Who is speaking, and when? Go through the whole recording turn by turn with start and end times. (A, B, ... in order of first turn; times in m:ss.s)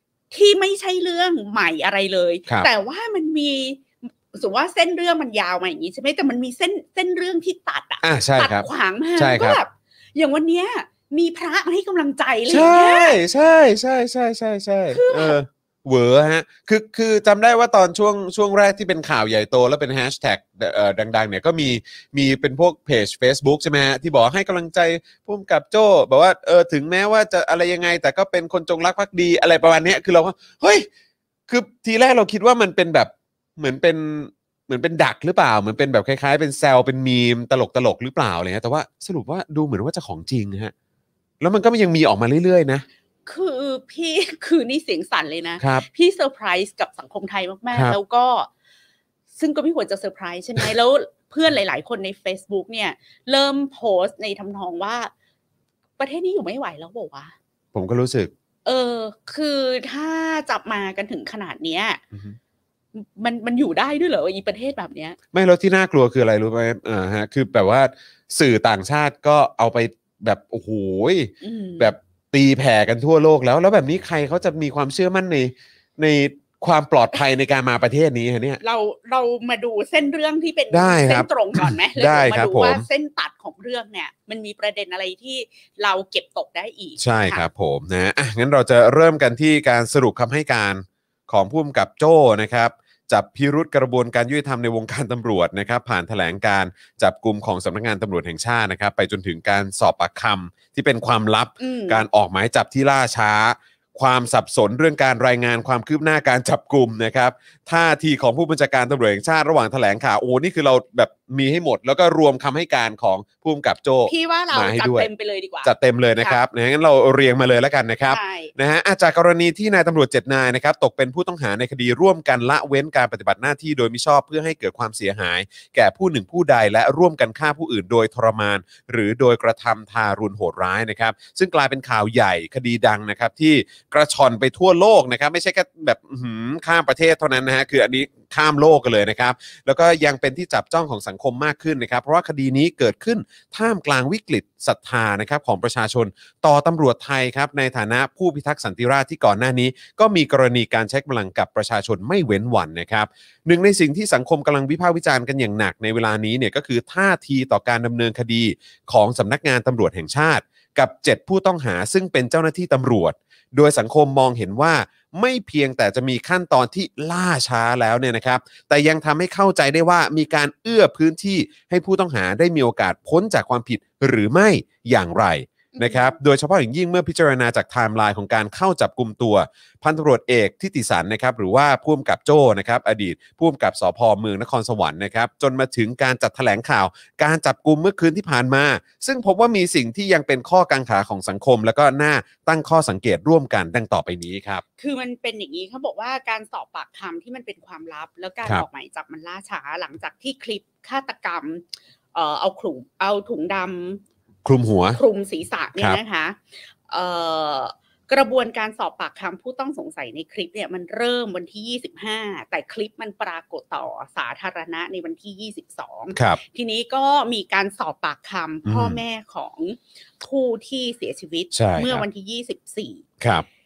0:00.3-0:13.2 A
0:08.0-0:09.6 B
0:12.5-0:30.9 B
0:14.9-0:15.4 A
0:31.5-0:40.7 B
0:41.4-0:42.8 B
0:43.2-0:48.5 A
0:45.6-0:45.8 B
0:49.4-0:55.1 A
0:56.0-0:57.3 A
0:57.7-0:58.3 B
0:58.6-1:02.0 A
1:02.9-1:05.2 A
1:05.3-1:18.6 B
1:11.4-1:11.9 A
1:18.6-1:27.4 A
1:20.7-1:22.8 B
1:27.0-1:55.1 B
1:41.6-1:42.0 A
1:54.0-1:56.4 A
1:55.6-3:14.6 B
1:58.1-1:58.5 A
2:55.7-2:56.2 A
3:14.8-3:24.0 A
3:24.4-3:25.0 B
3:24.9-3:43.0 A
3:36.1-3:36.4 B
3:38.6-3:39.0 B
3:41.5-3:42.0 B
3:43.2-3:43.4 B